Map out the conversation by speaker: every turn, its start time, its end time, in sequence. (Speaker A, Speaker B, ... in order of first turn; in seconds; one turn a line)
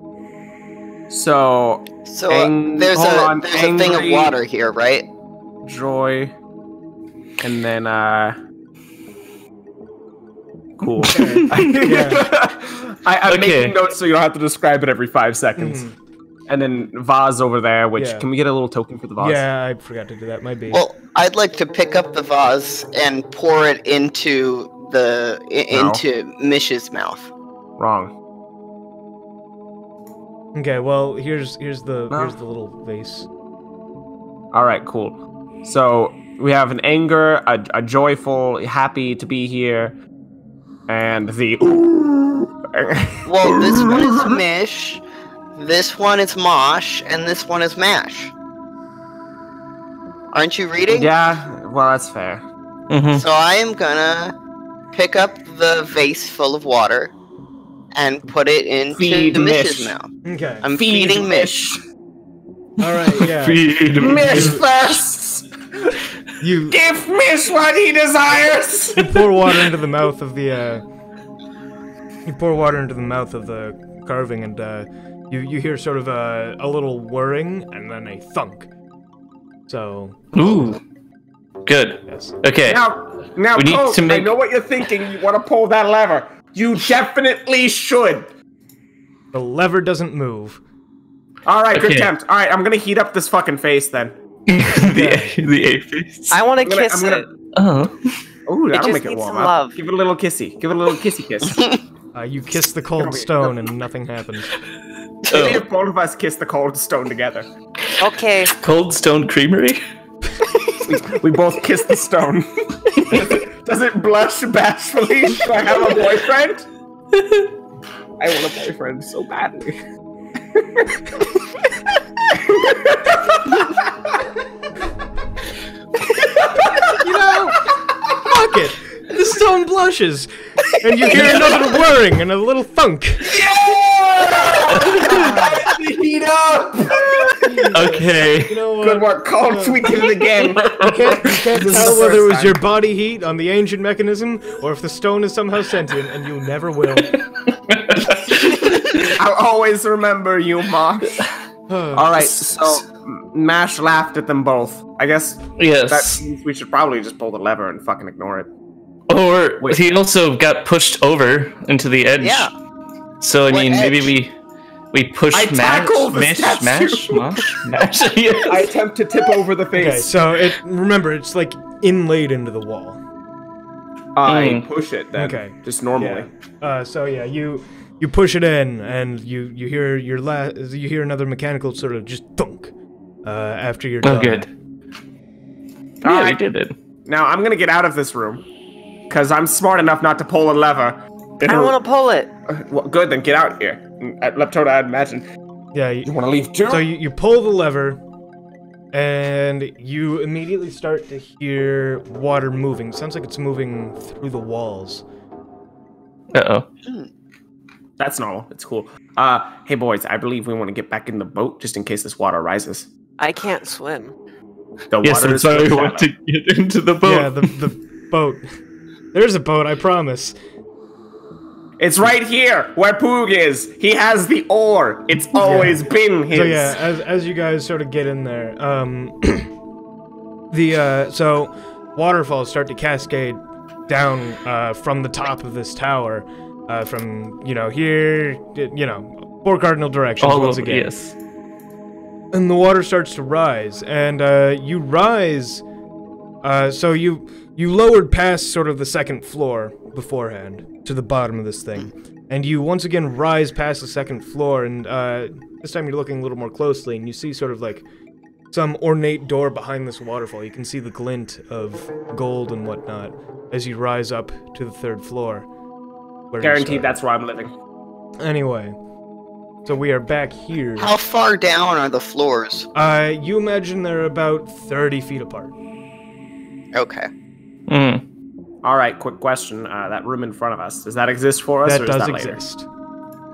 Speaker A: 1.1-4.4
Speaker B: 2.0-5.1
Speaker A: 5.6-6.3
Speaker A: 7.4-8.4
Speaker A: 10.8-15.8
Speaker C: 11.1-12.3
Speaker D: 11.2-11.7
Speaker D: 13.3-13.8
Speaker C: 15.6-15.9
Speaker A: 16.5-19.4
Speaker C: 18.0-18.3
Speaker C: 19.2-20.8
Speaker B: 20.7-27.3
Speaker A: 25.7-26.0
Speaker A: 27.8-28.1
Speaker C: 30.5-33.3
Speaker A: 32.1-32.4
Speaker A: 34.5-40.0
Speaker A: 40.9-44.4
Speaker B: 43.2-45.0
Speaker B: 45.5-48.3
Speaker B: 50.3-51.1
Speaker A: 50.9-52.5
Speaker D: 52.9-53.2
Speaker B: 53.1-54.4
Speaker B: 54.9-57.1
Speaker B: 57.9-60.1
Speaker A: 58.9-59.9
Speaker C: 60.2-60.6
Speaker B: 60.6-61.5
Speaker A: 60.7-61.8
Speaker C: 62.8-64.6
Speaker D: 63.2-64.7
Speaker A: 64.0-66.0
Speaker C: 66.4-66.8
Speaker A: 66.7-69.3
Speaker C: 69.0-70.8
Speaker C: 72.3-78.7
Speaker C: 79.7-80.8
Speaker D: 80.3-80.8
Speaker D: 81.7-82.9
Speaker C: 82.1-82.4
Speaker A: 82.7-88.3
Speaker D: 83.5-84.3
Speaker C: 89.3-90.6
Speaker A: 91.5-94.2
Speaker D: 91.7-92.1
Speaker D: 94.5-96.4
Speaker C: 94.7-95.3
Speaker E: 96.3-97.2
Speaker A: 96.6-97.3
Speaker D: 97.5-98.2
Speaker A: 98.5-101.7
Speaker E: 98.7-99.8
Speaker C: 102.1-104.6
Speaker A: 103.0-103.5
Speaker D: 105.3-105.6
Speaker A: 105.3-107.5
Speaker E: 108.0-108.5
Speaker D: 108.5-109.8
Speaker A: 110.9-116.7
Speaker D: 117.1-117.5
Speaker A: 118.2-119.8
Speaker A: 120.5-121.3
Speaker A: 122.3-123.9
Speaker A: 126.2-126.9
Speaker C: 126.9-133.4
Speaker A: 131.1-131.6
Speaker A: 133.2-137.6
Speaker D: 134.8-135.3
Speaker C: 137.4-140.1
Speaker D: 137.7-138.6
Speaker A: 138.8-142.6
Speaker C: 140.8-147.2
Speaker D: 141.6-141.9
Speaker D: 147.5-149.1
Speaker A: 148.9-151.3
Speaker C: 151.7-152.1
Speaker A: 151.9-158.5
Speaker D: 152.2-152.8
Speaker D: 155.6-156.2
Speaker D: 159.1-162.5
Speaker B: 162.2-162.5
Speaker D: 163.2-164.3
Speaker B: 163.5-164.1
Speaker D: 164.9-168.7
Speaker A: 165.3-167.9
Speaker A: 168.4-170.1
Speaker C: 169.8-173.0
Speaker A: 174.2-176.3
Speaker D: 174.3-174.6
Speaker C: 175.2-182.7
Speaker C: 183.2-184.5
Speaker D: 184.0-184.5
Speaker D: 186.0-186.8
Speaker A: 186.0-186.4
Speaker A: 187.1-188.4
Speaker A: 189.1-191.8
Speaker E: 191.5-192.3
Speaker A: 192.5-195.3
Speaker C: 195.7-196.1
Speaker A: 196.0-196.9
Speaker C: 196.7-198.0
Speaker C: 198.9-205.0
Speaker D: 206.3-206.7
Speaker A: 208.0-212.9
Speaker E: 213.2-214.1
Speaker A: 214.9-216.1
Speaker D: 215.0-217.6
Speaker C: 217.0-218.4
Speaker C: 219.1-220.4
Speaker A: 221.8-226.8
Speaker C: 225.4-225.8
Speaker C: 226.3-229.5
Speaker C: 230.5-240.9
Speaker D: 240.2-241.2
Speaker C: 242.3-245.6
Speaker C: 246.4-257.9
Speaker C: 258.5-265.5
Speaker C: 266.3-267.0
Speaker A: 266.4-267.5
Speaker C: 268.2-268.8
Speaker C: 269.6-270.9
Speaker B: 270.8-272.7
Speaker C: 272.8-275.5
Speaker B: 276.7-277.1
Speaker D: 277.7-278.0
Speaker A: 278.6-282.4
Speaker C: 281.6-282.7